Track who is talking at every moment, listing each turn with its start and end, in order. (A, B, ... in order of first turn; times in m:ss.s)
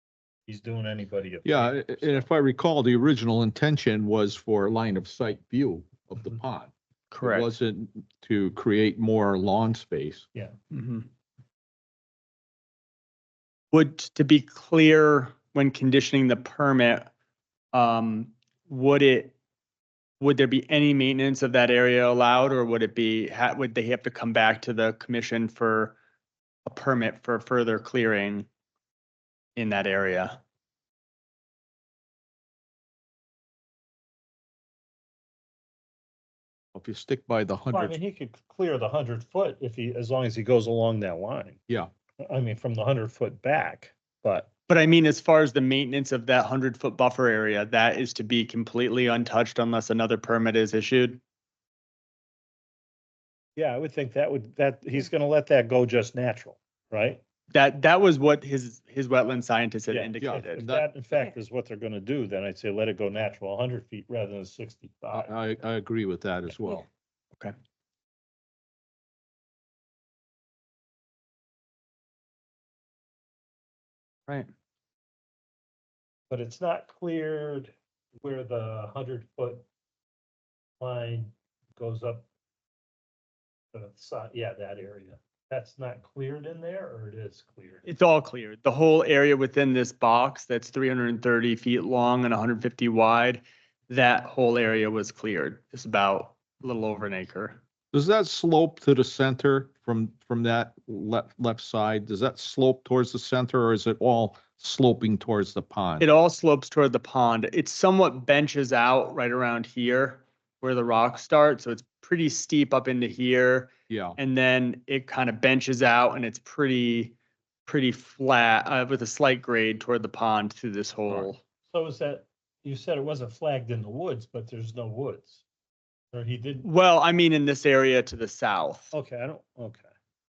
0:00.5-0:02.3 A
0:01.4-0:10.2 B
0:07.1-0:07.5 C
0:10.7-0:11.1 C
0:13.7-0:17.1 C
0:17.7-0:19.3 C
0:20.2-0:26.0 C
0:26.7-0:28.5 C
0:29.6-0:30.4 C
0:36.8-0:38.0 B
0:37.7-0:41.6 A
0:42.2-0:44.5 A
0:44.7-0:51.2 C
0:53.6-0:57.2 A
0:57.5-1:00.6 C
0:59.9-1:05.3 A
1:00.2-1:00.8 B
1:05.1-1:06.9 B
1:16.3-1:19.6 A
1:20.8-1:22.3 A
1:23.7-1:27.9 A
1:27.9-1:37.6 C
1:37.9-1:46.1 B
1:46.0-2:01.4 C
1:53.9-1:54.2 B
2:01.7-2:05.4 A
2:06.1-2:06.7 A
2:06.6-2:08.9 C
2:08.9-2:09.9 A